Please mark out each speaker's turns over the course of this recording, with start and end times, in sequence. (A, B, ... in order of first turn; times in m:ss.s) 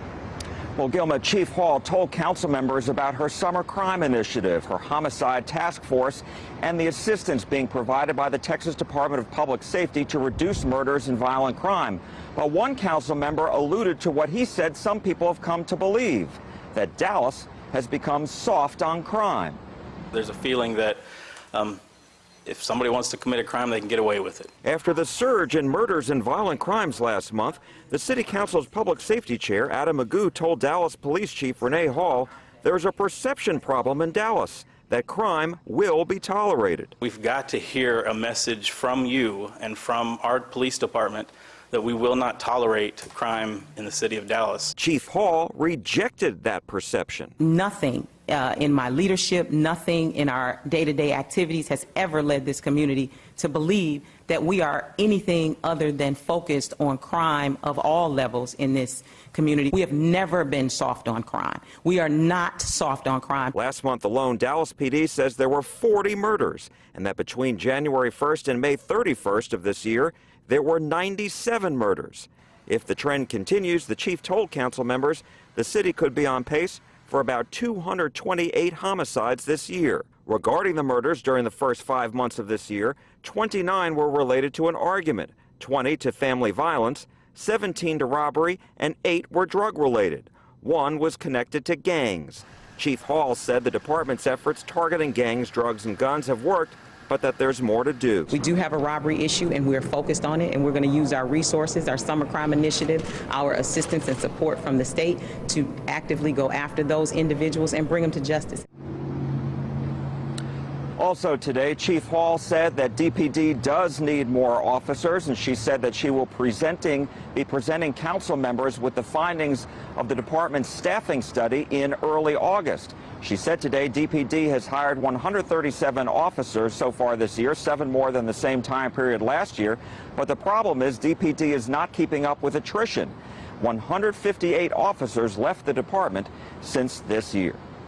0:00.8-0:19.6 A
0:20.1-0:21.0 B
0:21.5-0:21.8 B
0:22.5-0:24.5 B
0:24.6-0:36.9 A
0:37.0-0:44.8 B
0:44.8-0:47.4 A
0:47.4-1:03.6 C
1:03.6-1:38.4 A
1:38.3-1:48.6 C
1:51.0-2:17.6 A